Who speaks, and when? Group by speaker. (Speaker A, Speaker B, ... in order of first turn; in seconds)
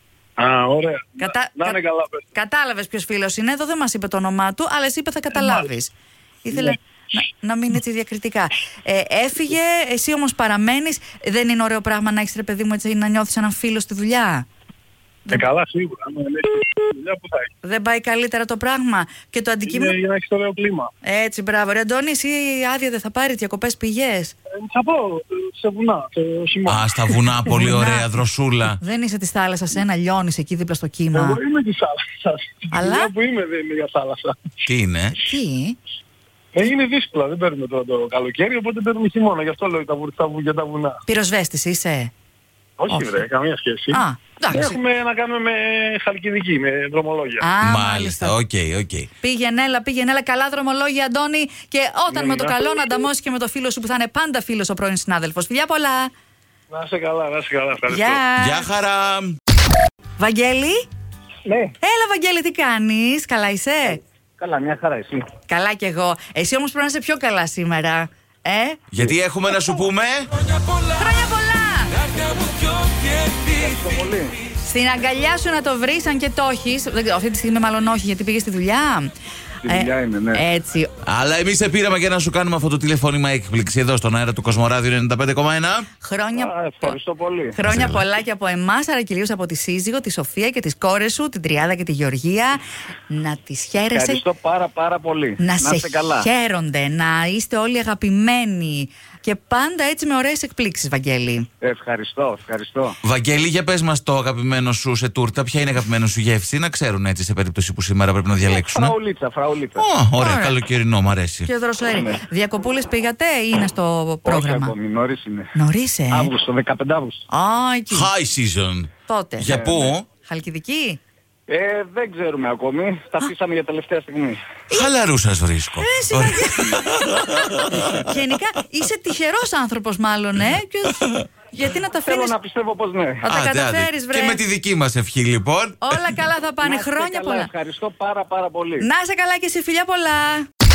Speaker A: 0.4-2.2, 5.3-5.7, 15.3-17.5, 19.6-20.9, 24.5-27.3, 31.1-34.4, 36.5-41.0, 42.8-47.5, 52.1-52.7, 56.7-58.2
Speaker B: 1.2-1.8, 2.3-5.9, 6.4-14.4, 17.6-20.0, 21.0-24.3, 27.5-28.1, 28.8-31.4, 32.7-33.1, 35.2-35.8, 41.1-42.1, 42.9-43.2, 43.9-44.8, 47.4-48.3, 49.2-56.1, 57.9-58.7, 60.2-60.8, 61.8-64.0, 65.5-68.8, 70.9-72.0, 74.6-79.1, 79.7-80.9, 86.0-87.0, 87.5-94.2, 95.4-101.5, 110.2-110.6, 111.5-114.7, 115.5-116.3, 117.3-118.1, 119.1-119.7, 120.2-121.0, 125.8-132.3, 133.2-134.4, 135.8-137.5, 138.8-140.4
Speaker C: 26.7-28.8, 34.6-35.2, 47.6-49.1, 58.4-59.4, 68.9-70.8, 72.0-73.6, 81.0-85.9, 87.6-88.0, 103.0-108.9, 109.8-111.5, 117.9-120.1, 124.7-128.1, 131.0-131.3, 133.2-136.2
Speaker D: 61.5-61.7, 64.4-65.2, 73.5-74.3, 79.6-80.4, 86.4-87.5, 93.9-96.3, 101.6-103.0, 108.5-109.8, 111.9-112.2, 114.2-115.5, 116.1-117.2, 119.4-119.9, 121.5-124.4, 132.1-133.2, 136.6-138.8